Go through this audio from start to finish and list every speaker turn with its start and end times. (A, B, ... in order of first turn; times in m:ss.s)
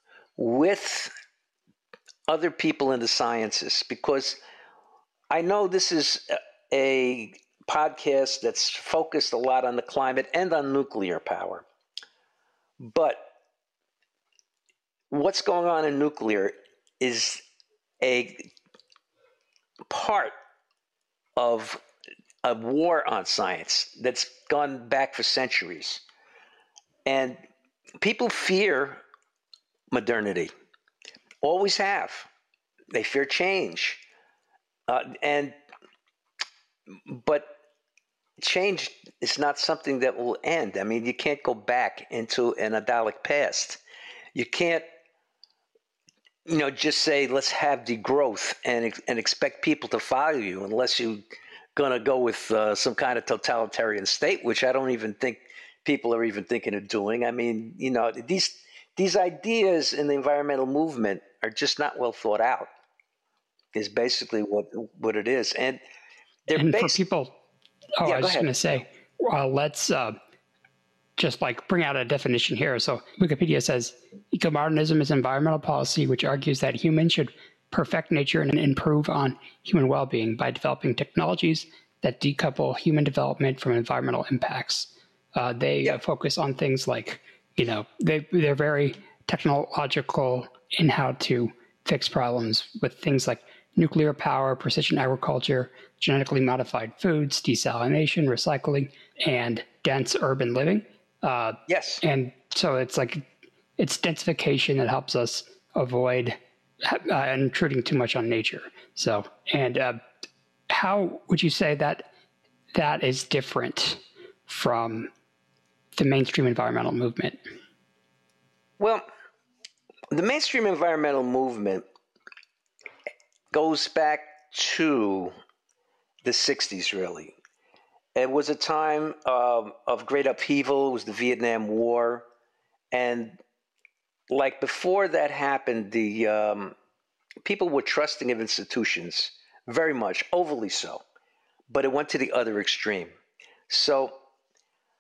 0:00.4-0:01.1 A
0:02.3-0:04.4 A
0:05.3-0:11.7 A
0:12.8-0:13.3 A
0:15.1-0:17.4 A
0:18.0-0:18.5 A
0:19.9-0:20.3 A
0:21.4-0:21.8 A
0:22.4-0:26.0 A
0:27.1-0:27.4 A
0:28.0-0:29.0 A
0:29.9-0:30.5 A
0:31.4-0:32.3 A
0:32.9-0:34.0 A
0:34.9-0:35.6 A
0:37.1-0:37.6 A
0:38.4-0:43.8 A
0:44.3-0:44.9 A
0:46.5-0:51.2 A
0:51.8-1:02.7 A
1:03.7-1:05.8 A
1:06.5-1:07.0 A
1:06.5-1:07.4 B
1:08.0-1:10.2 B
1:08.0-1:08.6 A
1:11.2-1:43.2 B
1:41.7-1:42.0 A
1:43.8-1:50.0 B
1:50.7-1:52.1 B
1:52.7-1:55.1 B
1:56.0-1:57.4 B
1:58.8-1:59.1 A
2:00.1-2:01.9 A
2:03.5-2:05.3 A
2:06.2-2:07.3 A
2:08.2-2:12.3 A
2:12.9-2:13.4 A
2:14.3-2:16.8 A
2:17.4-2:21.0 A
2:21.7-2:23.1 A
2:23.7-2:24.2 A